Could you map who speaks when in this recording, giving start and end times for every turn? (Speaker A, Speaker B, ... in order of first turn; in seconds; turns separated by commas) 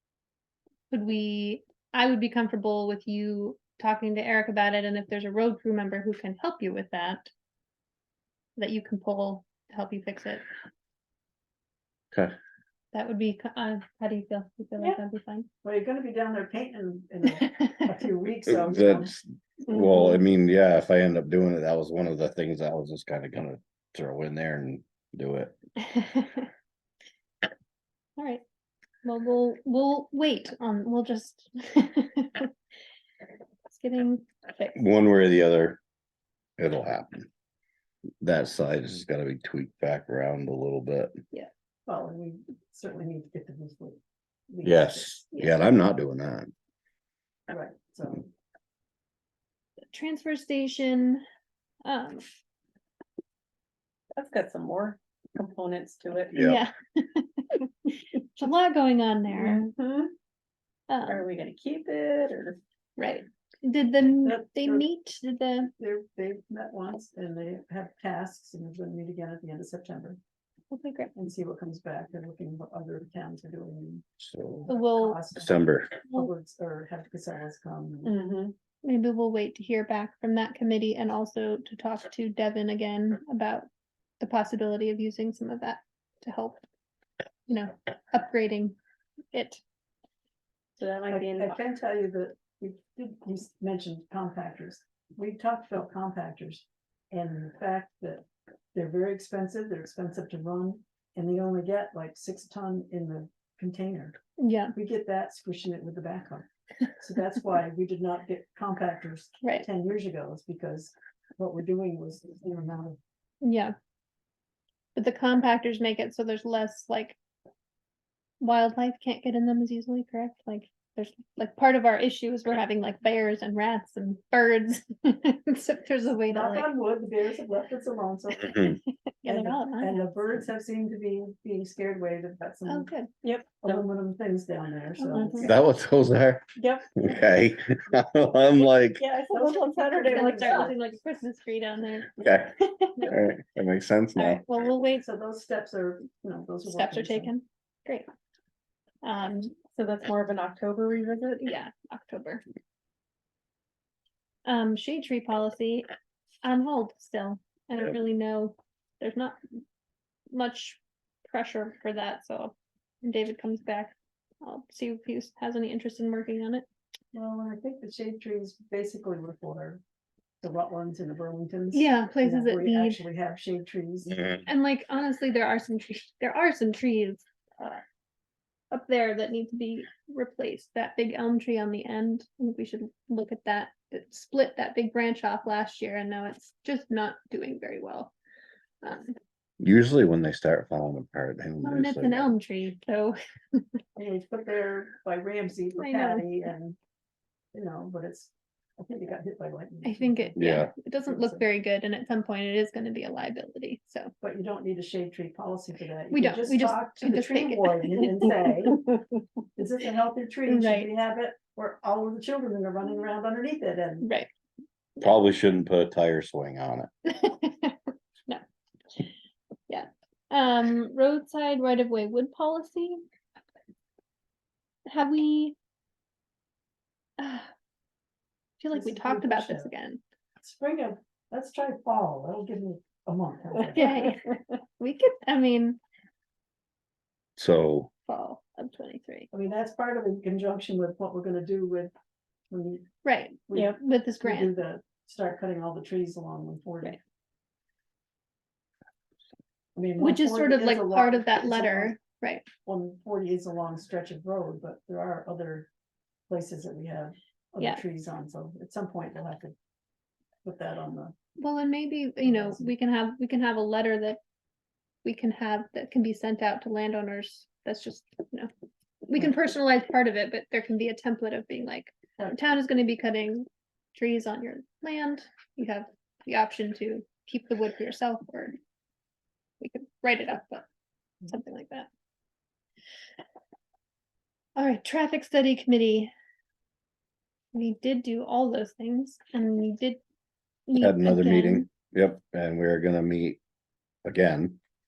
Speaker A: 0.9-7.3, Speaker A: 8.6-10.4, Speaker A: 12.9-15.5, Speaker B: 15.6-19.1, Speaker A: 17.3-17.9, Speaker C: 18.5-25.6, Speaker D: 19.7-20.1, Speaker A: 25.9-26.5, Speaker A: 28.2-28.4, Speaker A: 29.0-32.5, Speaker A: 33.7-34.8, Speaker C: 34.8-35.8, Speaker C: 36.6-37.3, Speaker C: 38.2-41.1, Speaker B: 41.9-44.0, Speaker B: 44.5-45.1, Speaker C: 44.6-46.5, Speaker A: 45.3-45.6, Speaker B: 47.5-48.3, Speaker A: 49.9-51.2, Speaker A: 51.8-52.2, Speaker D: 54.1-56.4, Speaker C: 56.3-56.6, Speaker A: 56.4-59.6, Speaker D: 59.3-60.1, Speaker A: 60.9-61.2, Speaker D: 61.0-62.6, Speaker A: 63.0-65.7, Speaker B: 64.2-64.9, Speaker B: 65.8-70.2, Speaker A: 70.7-71.1, Speaker B: 71.2-78.2, Speaker C: 74.3-74.6, Speaker A: 74.7-75.2, Speaker C: 75.4-76.0, Speaker D: 78.0-78.5, Speaker A: 78.8-83.7, Speaker A: 84.2-86.6, Speaker A: 87.5-88.8, Speaker A: 89.3-89.6, Speaker D: 90.8-91.6, Speaker B: 91.1-104.2, Speaker A: 104.4-104.7, Speaker B: 104.8-106.5, Speaker B: 107.0-113.0, Speaker A: 113.4-113.7, Speaker A: 115.0-117.2, Speaker A: 118.4-126.7, Speaker B: 126.3-128.7, Speaker A: 128.4-130.0, Speaker B: 129.2-132.9, Speaker A: 132.7-133.1, Speaker D: 133.2-133.8, Speaker B: 133.6-135.6, Speaker A: 135.0-135.5, Speaker D: 135.1-135.5, Speaker C: 135.4-136.5, Speaker D: 136.6-136.9, Speaker C: 137.0-139.0, Speaker D: 139.0-140.8, Speaker B: 139.3-140.8, Speaker A: 140.1-142.2, Speaker C: 142.2-144.4, Speaker A: 142.8-143.1, Speaker A: 144.2-145.1, Speaker B: 145.0-147.3, Speaker A: 146.7-148.1, Speaker A: 149.0-149.6, Speaker D: 149.7-151.5, Speaker A: 151.4-152.4, Speaker A: 154.5-155.9, Speaker A: 156.4-159.4, Speaker A: 160.3-166.7, Speaker B: 167.1-169.8, Speaker B: 170.4-174.2, Speaker A: 171.7-173.1, Speaker A: 174.5-177.8, Speaker A: 178.7-188.1, Speaker A: 188.8-189.2, Speaker C: 189.6-192.3, Speaker A: 191.6-193.6, Speaker B: 194.0-196.8, Speaker A: 195.8-196.3, Speaker B: 197.5-200.5, Speaker A: 199.8-204.1, Speaker C: 200.4-200.7, Speaker B: 201.1-201.4, Speaker B: 204.2-208.8, Speaker A: 206.1-208.3, Speaker B: 209.6-214.1, Speaker A: 210.5-210.9, Speaker A: 214.0-214.3, Speaker C: 215.0-216.9, Speaker A: 217.1-218.4, Speaker A: 219.7-223.0, Speaker A: 224.9-225.6, Speaker A: 227.2-227.5, Speaker A: 228.6-230.0, Speaker B: 228.7-229.7, Speaker B: 230.4-234.0, Speaker D: 233.7-234.4, Speaker A: 233.7-235.8, Speaker C: 237.4-237.9, Speaker A: 238.1-239.3, Speaker B: 239.3-241.9, Speaker B: 242.5-242.9, Speaker A: 243.0-244.5, Speaker B: 243.5-247.0, Speaker B: 249.8-252.0, Speaker A: 250.0-252.5, Speaker B: 252.7-255.7, Speaker B: 256.3-259.6, Speaker B: 260.4-261.1, Speaker A: 261.4-264.2, Speaker B: 262.2-262.7, Speaker A: 265.1-268.5, Speaker A: 269.1-278.6, Speaker A: 279.6-280.7, Speaker A: 281.2-281.9, Speaker A: 284.6-286.1, Speaker A: 287.5-290.0, Speaker A: 290.7-291.7, Speaker C: 290.8-293.4, Speaker C: 294.1-294.6